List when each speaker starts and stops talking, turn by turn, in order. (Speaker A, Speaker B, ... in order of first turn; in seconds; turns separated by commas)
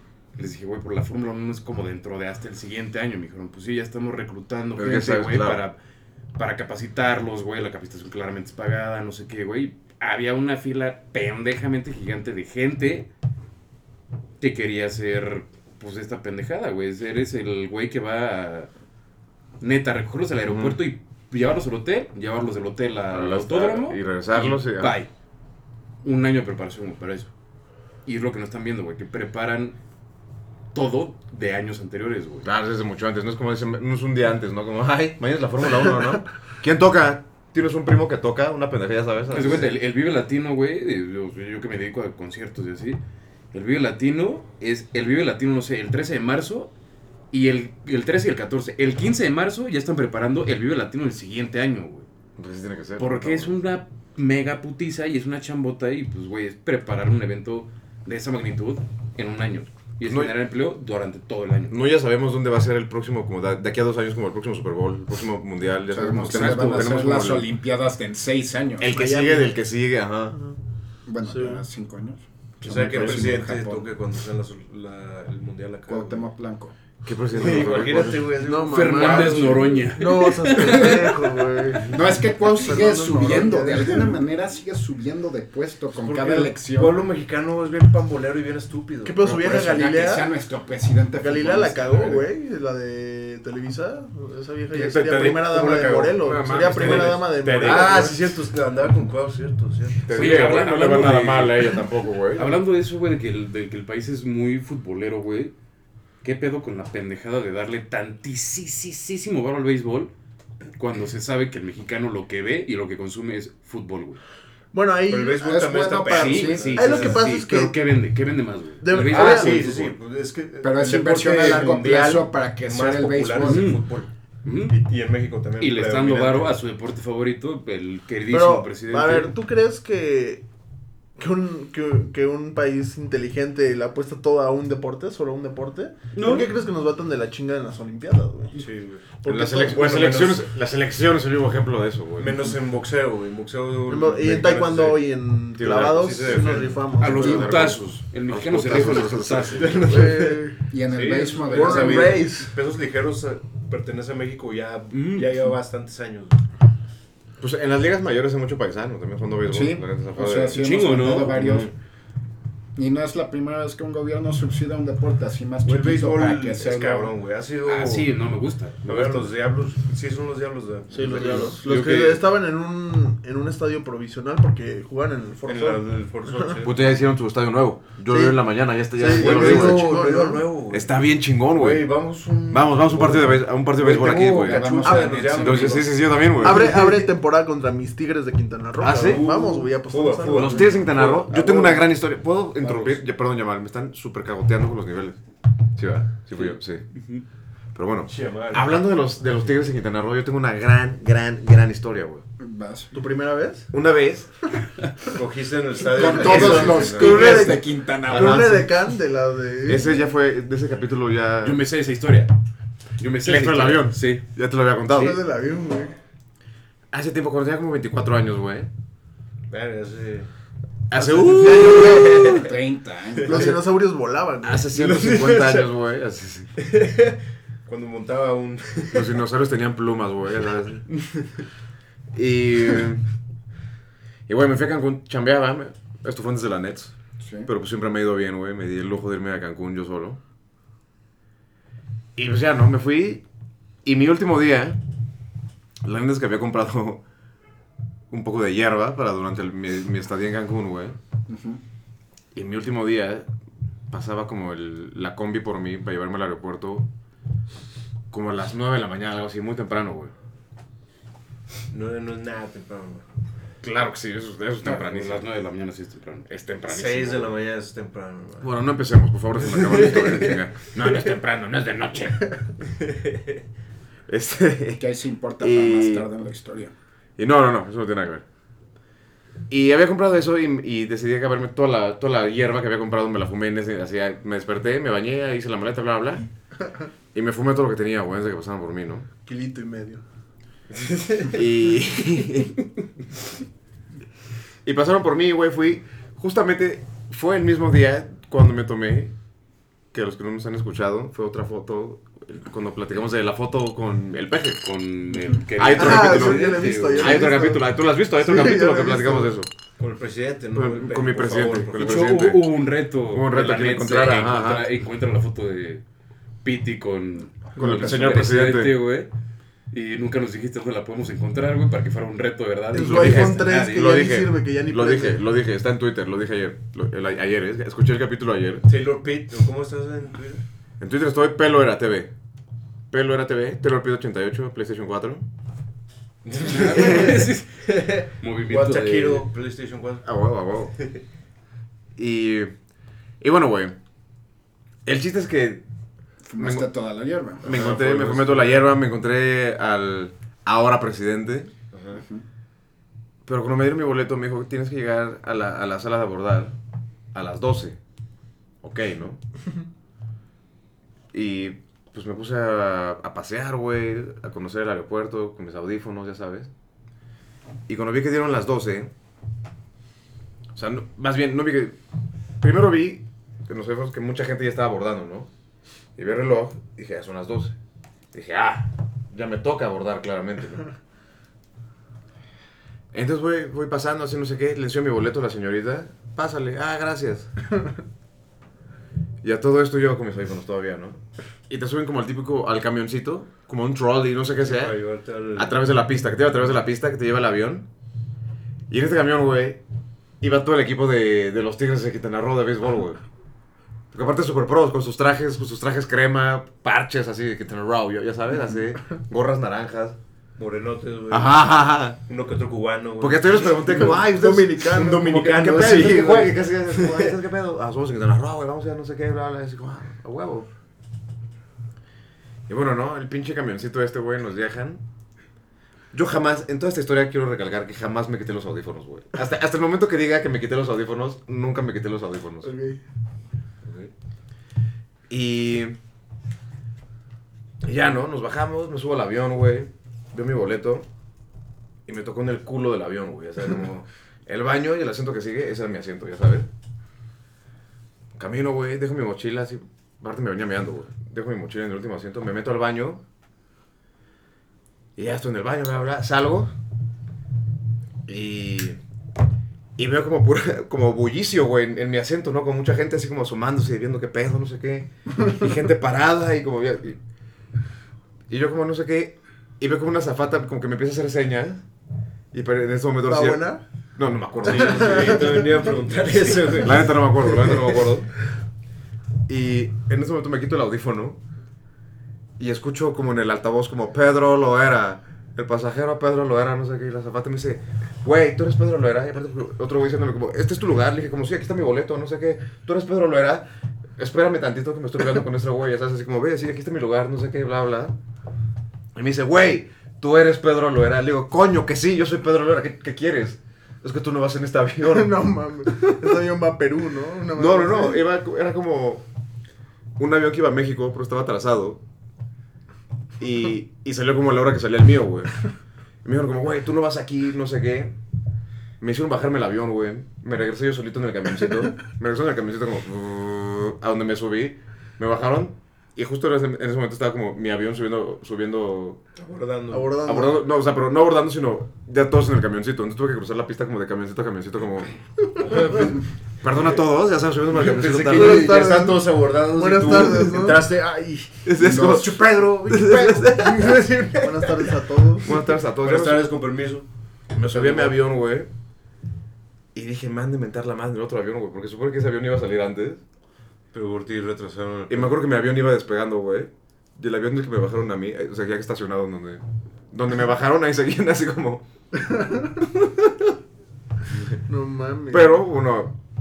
Speaker A: 0.4-5.8, Speaker B: 4.8-5.6, Speaker A: 6.4-13.1, Speaker A: 14.4-18.7, Speaker A: 19.6-25.1, Speaker B: 20.4-20.8, Speaker B: 23.1-25.0, Speaker A: 26.0-27.3, Speaker A: 28.1-29.8, Speaker A: 30.7-32.5, Speaker B: 32.4-39.7, Speaker A: 39.3-43.0, Speaker A: 43.5-46.7, Speaker A: 47.3-52.1, Speaker B: 52.4-53.5, Speaker A: 53.0-61.8, Speaker B: 60.0-60.3, Speaker B: 61.7-67.5, Speaker C: 65.9-69.0, Speaker A: 66.2-67.0, Speaker B: 68.8-70.4, Speaker D: 68.9-69.6, Speaker C: 71.1-73.9, Speaker D: 71.2-71.7, Speaker E: 72.6-76.2, Speaker C: 75.9-76.8, Speaker B: 77.0-78.3, Speaker E: 77.3-79.8, Speaker D: 78.4-84.2, Speaker A: 78.7-81.2, Speaker C: 81.9-87.0, Speaker E: 82.7-83.5, Speaker E: 86.0-89.2, Speaker D: 89.0-90.3, Speaker C: 89.2-92.3, Speaker D: 91.2-98.2, Speaker B: 94.8-98.1, Speaker E: 95.0-100.5, Speaker B: 100.0-102.5, Speaker A: 100.1-105.5, Speaker A: 106.2-110.1, Speaker A: 110.8-114.2, Speaker D: 114.7-115.7, Speaker E: 115.1-117.3, Speaker C: 115.4-117.2, Speaker A: 116.1-119.9, Speaker D: 116.8-117.8, Speaker D: 118.8-119.7, Speaker E: 119.1-124.1, Speaker C: 120.6-123.7, Speaker A: 123.4-123.8, Speaker A: 124.4-124.8, Speaker E: 124.7-126.5, Speaker A: 125.6-129.3, Speaker D: 128.3-130.4, Speaker D: 131.2-138.6, Speaker A: 136.2-136.5, Speaker E: 138.6-140.4, Speaker D: 139.2-139.8, Speaker B: 139.2-142.4, Speaker E: 142.2-145.0, Speaker D: 143.9-147.4, Speaker B: 145.6-150.1, Speaker E: 145.9-146.8, Speaker A: 147.0-150.2, Speaker C: 147.2-147.5, Speaker E: 149.6-156.4, Speaker D: 149.9-150.6, Speaker C: 150.7-152.2, Speaker D: 151.1-152.6, Speaker A: 154.9-155.4, Speaker B: 157.4-160.6, Speaker C: 159.5-161.7, Speaker A: 160.6-161.5, Speaker B: 161.3-161.7, Speaker C: 162.8-167.1, Speaker E: 165.6-168.1, Speaker A: 167.6-169.3, Speaker E: 168.8-171.6, Speaker D: 170.9-176.6, Speaker B: 171.1-171.5, Speaker A: 171.3-172.2, Speaker E: 175.4-176.9, Speaker B: 176.6-180.0, Speaker D: 178.1-178.4, Speaker D: 178.9-180.5, Speaker E: 179.1-186.0, Speaker B: 180.7-181.9, Speaker B: 182.5-186.8, Speaker C: 184.0-185.9, Speaker D: 184.8-185.8, Speaker D: 186.4-190.8, Speaker E: 186.6-186.9, Speaker B: 188.8-189.2, Speaker E: 188.8-191.8, Speaker B: 190.3-195.2, Speaker E: 192.6-192.9, Speaker B: 195.8-196.8, Speaker A: 196.4-197.2, Speaker B: 197.7-202.2, Speaker E: 198.1-198.7, Speaker C: 202.4-202.9, Speaker D: 202.9-203.7, Speaker B: 203.7-204.5, Speaker E: 205.1-207.4, Speaker C: 205.9-208.6, Speaker D: 206.1-209.9, Speaker B: 206.2-207.5, Speaker B: 208.1-208.7, Speaker B: 209.7-211.6, Speaker A: 211.4-212.3, Speaker A: 213.0-214.2, Speaker B: 213.2-215.2, Speaker D: 214.9-216.0, Speaker B: 216.9-218.7, Speaker E: 219.5-220.3, Speaker B: 220.9-222.4, Speaker C: 221.0-223.6, Speaker E: 221.4-222.5, Speaker D: 223.2-224.7, Speaker B: 223.3-223.6, Speaker B: 224.4-226.5, Speaker E: 224.7-225.7, Speaker E: 226.6-229.2, Speaker B: 228.9-230.8, Speaker E: 230.9-231.2, Speaker B: 232.2-233.0, Speaker B: 234.3-240.2, Speaker C: 237.2-237.5, Speaker B: 242.2-243.2, Speaker B: 243.8-244.8, Speaker B: 245.8-247.0, Speaker B: 248.1-251.0, Speaker C: 251.3-251.6, Speaker B: 252.3-253.3, Speaker B: 253.9-256.9, Speaker B: 258.1-260.1, Speaker E: 261.7-263.1, Speaker B: 263.6-265.2, Speaker A: 264.6-266.3, Speaker B: 266.3-267.3, Speaker E: 266.7-268.5, Speaker B: 268.4-272.5, Speaker E: 269.4-270.4, Speaker E: 272.9-273.2, Speaker B: 274.1-274.8, Speaker C: 274.8-276.7, Speaker B: 275.4-276.1, Speaker B: 277.2-278.2, Speaker B: 279.5-286.3, Speaker B: 287.1-289.1, Speaker D: 289.2-290.0, Speaker B: 291.2-292.7, Speaker B: 294.6-299.1, Speaker B: 299.9-304.6, Speaker A: 304.6-307.4, Speaker B: 305.5-309.5, Speaker D: 305.8-309.3, Speaker E: 309.8-312.3, Speaker B: 310.5-312.5, Speaker A: 311.8-315.8, Speaker B: 313.1-314.7, Speaker A: 316.4-319.1, Speaker B: 317.6-318.8, Speaker A: 319.7-323.9, Speaker D: 322.7-325.2, Speaker B: 322.8-328.7, Speaker E: 328.7-330.4, Speaker B: 330.8-332.1, Speaker B: 332.9-335.3, Speaker E: 336.2-340.1, Speaker A: 336.4-339.3, Speaker B: 336.7-337.2, Speaker B: 340.0-340.8, Speaker B: 342.0-342.5, Speaker B: 343.2-343.8, Speaker B: 344.9-345.6, Speaker C: 346.3-347.6, Speaker B: 346.4-346.7, Speaker B: 347.4-351.5, Speaker E: 347.4-348.8, Speaker E: 351.7-352.1, Speaker C: 351.9-352.2, Speaker B: 353.3-356.6, Speaker B: 357.1-357.8, Speaker B: 358.6-359.2, Speaker B: 361.1-366.5, Speaker B: 367.7-368.9, Speaker B: 370.6-371.8, Speaker B: 372.4-375.3, Speaker B: 376.0-377.6, Speaker B: 378.1-380.7, Speaker B: 382.9-387.3, Speaker B: 389.2-394.8, Speaker E: 394.4-395.6, Speaker B: 395.4-397.7, Speaker B: 398.7-399.6, Speaker B: 400.2-403.0, Speaker B: 403.9-410.0, Speaker E: 410.4-411.4, Speaker B: 411.1-412.0, Speaker E: 412.1-414.0, Speaker B: 413.0-420.5, Speaker D: 413.4-416.2, Speaker E: 414.6-417.2, Speaker B: 422.5-424.8, Speaker B: 425.9-432.5, Speaker D: 432.4-432.8, Speaker B: 435.1-435.8, Speaker B: 437.6-440.9, Speaker B: 441.9-446.5, Speaker B: 448.2-453.0, Speaker B: 455.0-456.5, Speaker B: 458.1-458.8, Speaker B: 459.8-467.0, Speaker B: 468.3-471.6, Speaker B: 472.3-475.5, Speaker D: 473.1-473.6, Speaker E: 474.5-477.0, Speaker D: 474.5-475.3, Speaker B: 476.6-478.1, Speaker B: 479.3-481.2, Speaker B: 482.4-493.5, Speaker B: 494.0-498.0, Speaker B: 498.9-505.9, Speaker D: 504.8-508.0, Speaker B: 507.4-509.1, Speaker B: 510.0-511.8, Speaker B: 513.2-515.5, Speaker B: 516.0-518.0, Speaker B: 518.8-529.0, Speaker E: 529.2-530.0, Speaker D: 529.7-530.4, Speaker B: 530.0-538.7, Speaker E: 537.6-546.9, Speaker D: 538.0-540.7, Speaker B: 541.5-543.7, Speaker C: 541.6-543.4, Speaker D: 544.2-545.3, Speaker B: 545.2-546.3, Speaker B: 547.4-548.5, Speaker E: 547.4-547.9, Speaker B: 549.7-553.0, Speaker E: 553.7-555.2, Speaker B: 554.9-561.6, Speaker D: 562.1-562.6, Speaker D: 564.5-565.4, Speaker B: 565.1-566.0